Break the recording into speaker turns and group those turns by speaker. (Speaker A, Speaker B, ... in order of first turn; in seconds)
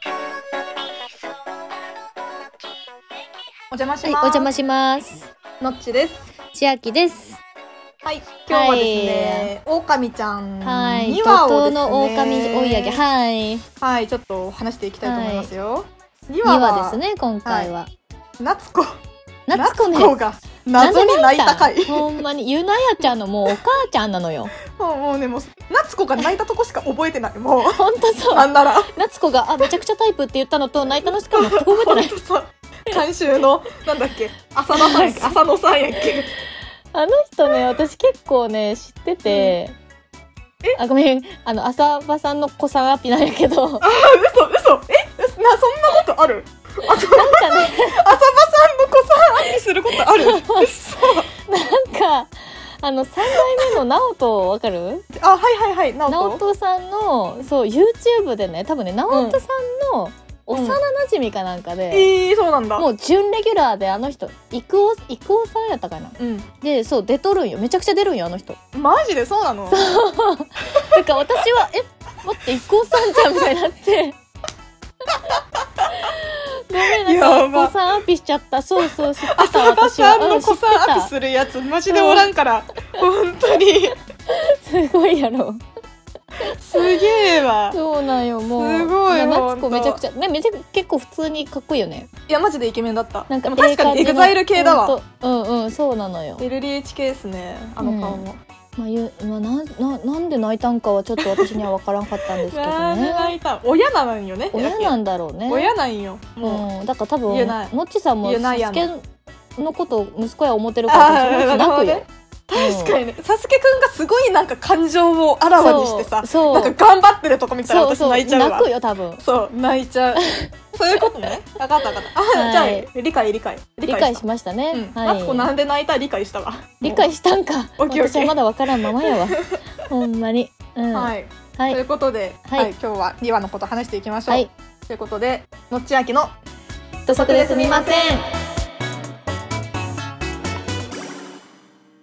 Speaker A: 3.7-4.5, 5.6-6.2, 8.0-13.0, 13.8-17.7, 18.4-19.0, 19.5-22.2, 24.8-28.9, 31.3-36.3, 39.3-39.6, 43.8-51.3, 53.3-53.7, 55.1-56.4, 59.1-59.4, 60.5-60.8, 61.9-62.9, 66.2-66.5, 68.7-70.0, 76.8-77.8, 79.2-84.0, 86.5-87.8, 88.4-90.0, 92.3-95.0, 96.4-98.4, 101.2-101.7, 102.5-105.0, 105.5-106.7, 107.3-108.9, 110.9-127.1, 127.8-129.6, 130.9-136.3, 137.1-138.2
Speaker B: 4.0-5.3, 6.5-7.4, 8.5-9.5, 10.6-13.7, 15.0-15.5, 16.4-17.9, 19.5-20.2, 20.8-24.5, 27.7-32.2, 34.7-35.4, 36.9-39.8, 40.8-43.9, 46.9-48.0, 50.0-50.7, 51.4-55.1, 56.1-62.1, 62.8-68.6, 69.7-74.2, 76.0-81.1, 81.9-82.3, 84.3-85.6, 86.4-92.1, 93.3-96.5, 97.8-98.2, 98.8-103.3, 104.5-105.7, 106.4-109.0, 109.6-113.0, 115.6-116.8, 117.7-119.2, 120.2-120.5, 122.3-122.9, 123.9-125.5, 126.8-129.4, 129.9-131.8, 132.5-132.7, 137.1-138.3